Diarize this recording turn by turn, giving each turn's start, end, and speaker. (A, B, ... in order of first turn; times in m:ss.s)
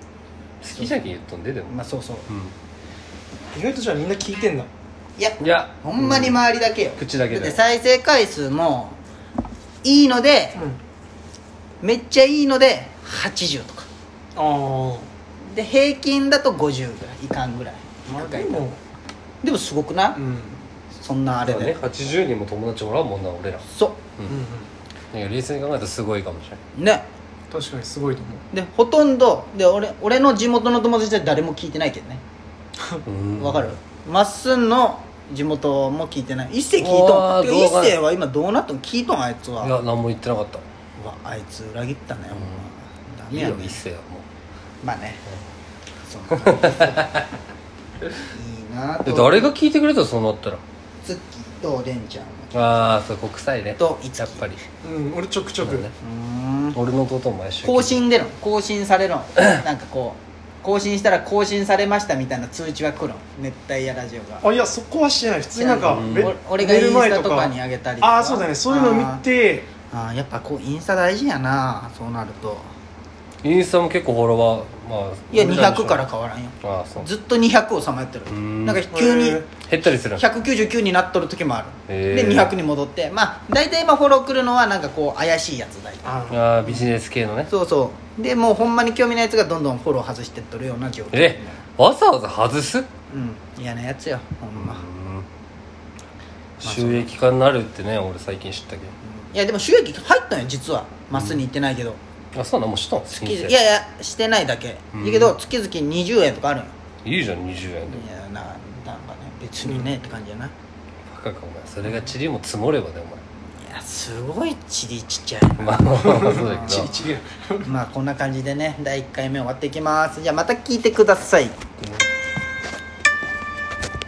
0:00.6-0:01.8 A
0:01.7-0:02.3 B
0:02.3-0:02.5 A
0:03.5-0:04.7 C
0:05.2-0:09.0 B
0:05.4-0:06.4 A
0:07.0-0:07.6 A
0:09.8-0:10.6 B
0:11.8-0:13.9 B
0:14.3-0:15.1 C
0:15.5-0:18.7 B
0:18.1-0:18.8 C
0:19.4-0:20.2 B
0:20.2-0:20.6 C
0:20.9-0:21.8 B
0:21.4-0:23.6 A
0:23.6-0:24.0 B
0:24.3-0:24.7 C
0:25.1-0:26.6 A
0:26.7-0:27.0 B
0:27.5-0:28.4 C
0:28.5-0:32.2 B
0:33.0-0:33.7 A
0:33.4-0:39.8 B
0:36.8-0:38.0 A
0:39.6-0:40.6 A
0:41.0-0:43.8 B
0:43.3-0:44.2 A
0:44.8-0:45.2 B
0:46.0-0:47.0 B
0:46.4-0:47.2 A
0:48.3-0:49.5 B
0:49.0-0:50.6 A
0:51.0-0:52.9 B
0:52.5-0:54.6 A
0:53.8-0:54.5 B
0:54.8-0:55.8 C
0:55.6-0:55.9 A
0:56.0-0:56.8 B
0:56.7-0:58.0 A
0:57.6-1:04.4 B
1:04.4-1:09.7 C
1:05.6-1:09.2 B
1:05.8-1:06.3 A
1:09.9-1:12.7 B
1:13.4-1:16.0 A
1:15.3-1:19.4 B
1:16.6-1:17.1 A
1:18.3-1:18.9 A
1:18.9-1:19.5 C
1:19.6-1:20.2 A
1:20.1-1:26.1 B
1:21.9-1:22.6 A
1:26.0-1:26.7 C
1:26.3-1:27.5 A
1:27.5-1:31.6 B
1:31.1-1:32.9 A
1:33.1-1:34.8 B
1:34.5-1:35.2 A
1:36.6-1:38.9 A
1:36.6-1:37.1 B
1:39.0-1:42.0 B
1:41.1-1:41.4 A
1:42.3-1:43.5 A
1:43.1-1:46.7 B
1:44.9-1:45.3 A
1:47.0-1:48.0 A
1:47.9-1:50.5 B
1:49.6-1:49.9 C
1:51.1-1:53.2 A
1:53.6-1:56.9 B
1:55.6-1:57.0 A
1:56.0-1:57.7 C
1:57.6-2:01.6 B
2:01.8-2:02.0 A